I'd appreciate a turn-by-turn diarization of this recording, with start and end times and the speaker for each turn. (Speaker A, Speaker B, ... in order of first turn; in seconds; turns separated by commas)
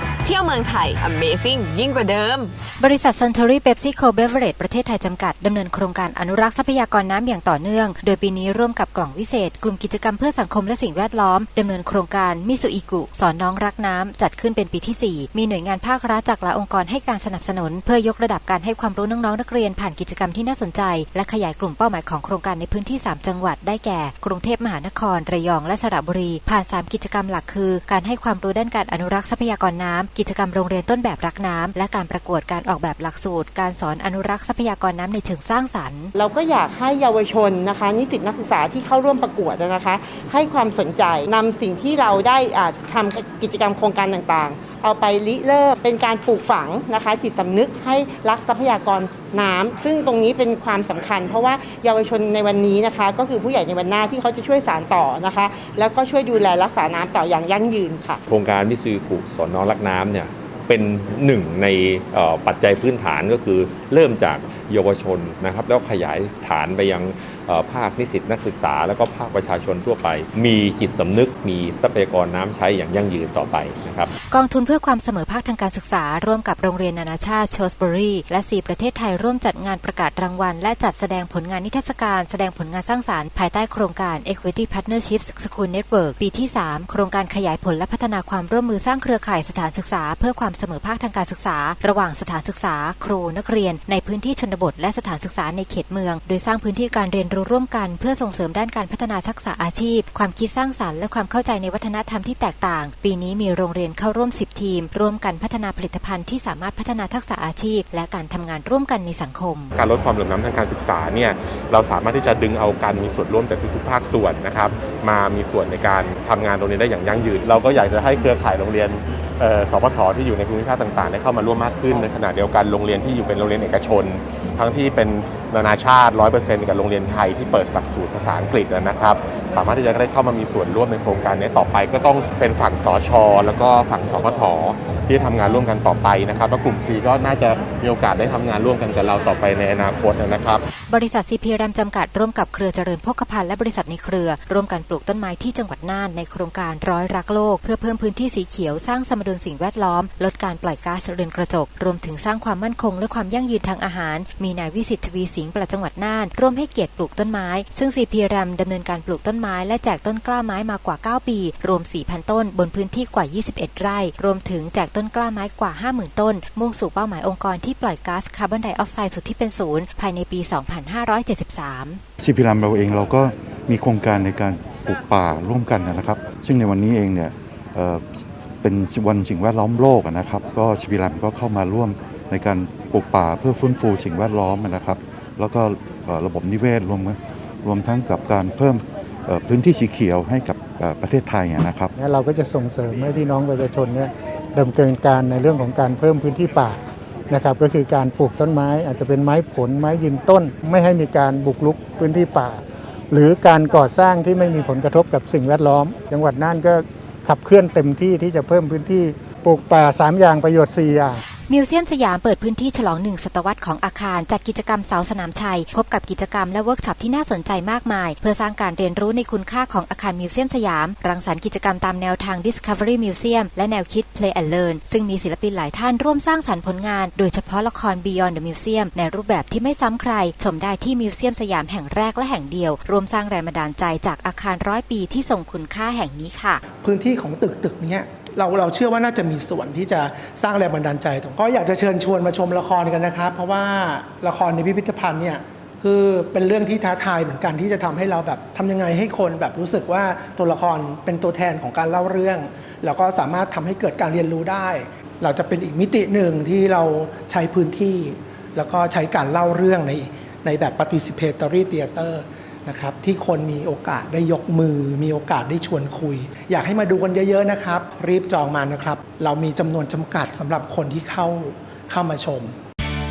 Speaker A: 0.2-2.5, Speaker B: 2.8-36.1, Speaker C: 36.1-58.2, Speaker D: 58.2-74.1, Speaker B: 74.3-109.7, Speaker E: 109.8-140.6, Speaker B: 140.9-172.0, Speaker F: 172.2-191.9, Speaker G: 191.9-211.2, Speaker B: 211.5-236.6, Speaker H: 236.8-272.6